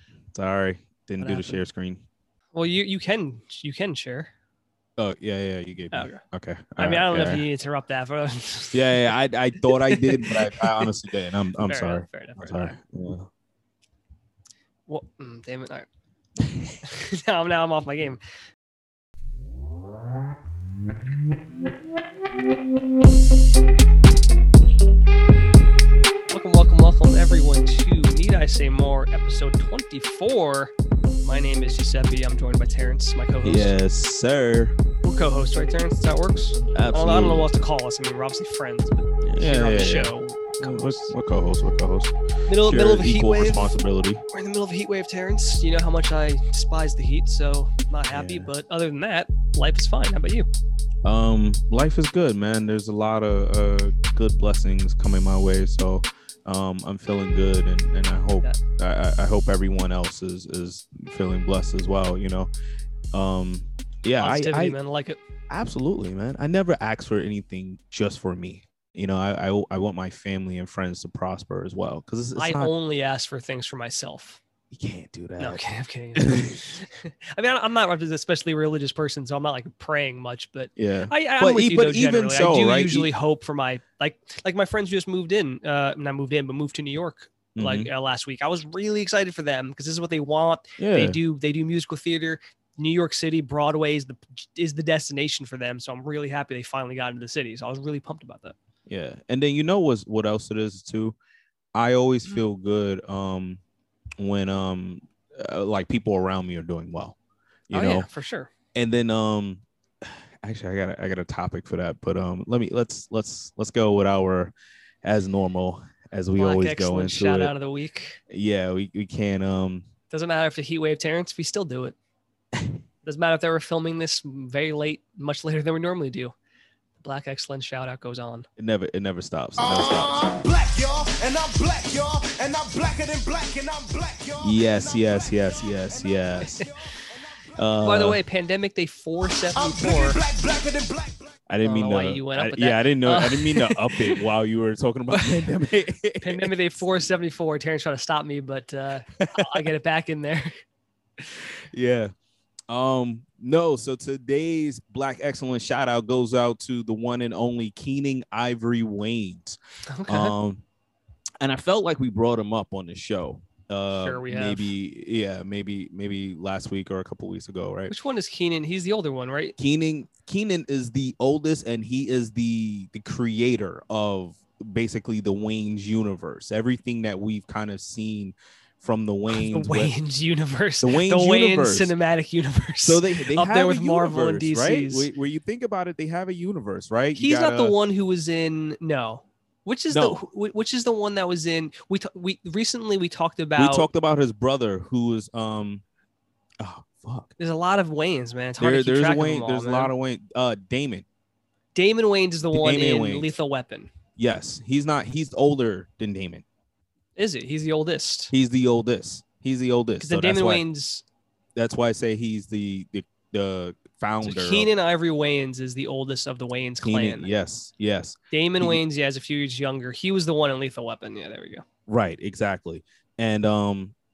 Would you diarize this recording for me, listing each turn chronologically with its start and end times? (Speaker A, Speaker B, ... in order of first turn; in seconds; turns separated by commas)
Speaker A: 0.3-2.0, Speaker B: 1.2-1.6, Speaker B: 2.5-4.3, Speaker A: 5.0-7.4, Speaker B: 5.9-6.2, Speaker B: 6.8-9.1, Speaker A: 8.7-13.3, Speaker B: 9.6-10.8, Speaker B: 11.6-12.7, Speaker B: 14.9-15.9, Speaker B: 16.8-18.2, Speaker B: 26.3-30.7, Speaker B: 31.2-33.8, Speaker A: 33.4-34.8, Speaker B: 35.0-41.1, Speaker A: 36.7-37.5, Speaker A: 39.2-44.2, Speaker B: 42.5-43.7, Speaker B: 44.3-50.5, Speaker A: 48.1-48.5, Speaker A: 51.0-62.5, Speaker A: 63.1-64.8, Speaker B: 64.2-65.2, Speaker A: 65.5-72.7, Speaker B: 72.3-74.4, Speaker A: 74.7-75.6, Speaker B: 75.4-98.5, Speaker A: 76.2-76.6, Speaker A: 80.8-83.1, Speaker A: 87.5-87.9, Speaker A: 90.8-91.2, Speaker A: 98.9-101.2, Speaker A: 101.7-103.6, Speaker A: 104.2-107.2, Speaker A: 107.7-108.0, Speaker B: 107.7-108.5, Speaker A: 108.7-117.5, Speaker B: 116.4-118.2, Speaker A: 118.3-119.9, Speaker B: 120.1-121.9, Speaker B: 123.0-126.3, Speaker B: 127.0-128.5, Speaker A: 128.6-130.1, Speaker C: 129.6-137.5, Speaker A: 134.4-136.6, Speaker B: 136.4-136.7, Speaker A: 137.6-138.2, Speaker B: 137.8-140.2, Speaker C: 139.2-141.4, Speaker A: 141.5-146.8, Speaker B: 141.6-144.2, Speaker B: 145.1-145.5, Speaker B: 146.2-150.5, Speaker A: 149.2-149.7, Speaker A: 151.7-152.1, Speaker A: 152.7-160.6, Speaker B: 159.9-160.3, Speaker A: 161.4-167.9, Speaker B: 163.9-164.7, Speaker B: 167.9-169.5, Speaker A: 169.6-179.9, Speaker B: 179.3-185.1, Speaker A: 180.8-181.9, Speaker A: 182.8-187.8, Speaker B: 187.2-193.9, Speaker A: 189.9-190.2, Speaker A: 193.6-195.8, Speaker A: 196.6-197.3, Speaker B: 197.4-199.9, Speaker A: 198.6-201.0, Speaker B: 201.7-203.9, Speaker A: 202.5-203.3, Speaker A: 204.2-206.4, Speaker B: 207.2-208.3, Speaker A: 208.3-210.6, Speaker B: 210.0-211.0, Speaker A: 211.6-214.7, Speaker B: 214.2-217.3, Speaker A: 216.8-218.8, Speaker B: 218.3-221.6, Speaker A: 221.9-223.9